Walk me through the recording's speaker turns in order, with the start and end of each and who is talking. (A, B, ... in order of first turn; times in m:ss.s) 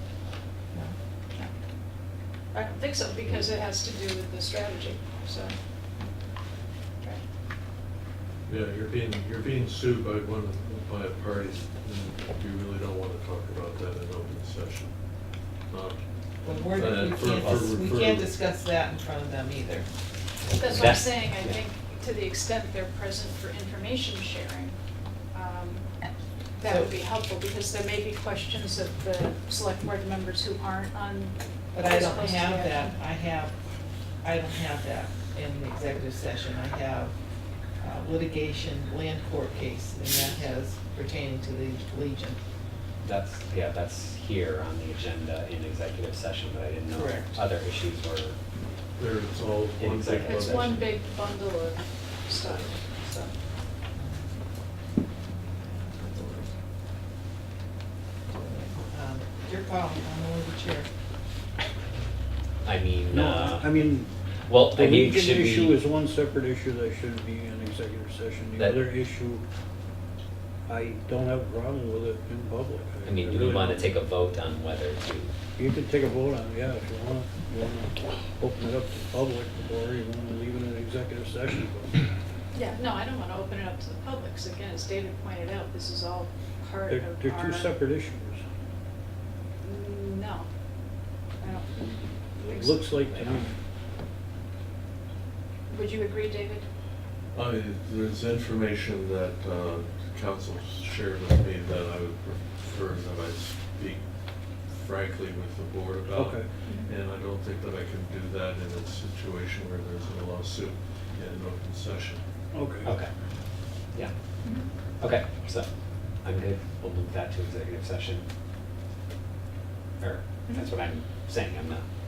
0:02.5-0:05.5 A
0:08.5-0:14.9 B
0:15.7-0:16.0 B
0:16.4-0:19.9 C
0:16.7-0:18.3 B
0:20.6-0:24.7 A
0:20.6-0:21.6 D
0:25.3-0:25.9 A
0:26.6-0:32.9 A
0:26.6-0:26.9 C
0:31.7-0:33.5 C
0:34.2-0:37.1 C
0:37.8-0:42.4 C
0:43.0-0:48.4 D
0:46.9-0:47.4 C
0:49.0-0:50.9 B
0:49.8-0:50.8 D
0:50.2-0:53.3 A
0:55.6-0:56.5 C
0:58.3-1:00.9 C
1:02.6-1:03.8 D
1:03.1-1:04.1 E
1:04.5-1:05.8 D
1:04.7-1:09.4 E
1:08.5-1:08.9 D
1:10.7-1:13.9 E
1:13.0-1:15.3 D
1:15.6-1:22.0 E
1:22.5-1:27.7 A
1:26.9-1:28.4 E
1:29.6-1:30.5 A
1:31.4-1:31.7 A
1:31.7-1:33.5 E
1:32.4-1:32.9 A
1:33.1-1:33.5 D
1:35.7-1:36.6 A
1:37.3-1:44.0 B
1:44.7-1:52.2 B
1:46.1-1:46.4 E
1:52.5-1:52.9 E
1:52.8-1:53.1 D
1:55.0-1:55.7 D
1:56.2-1:58.2 D
2:00.0-2:01.8 D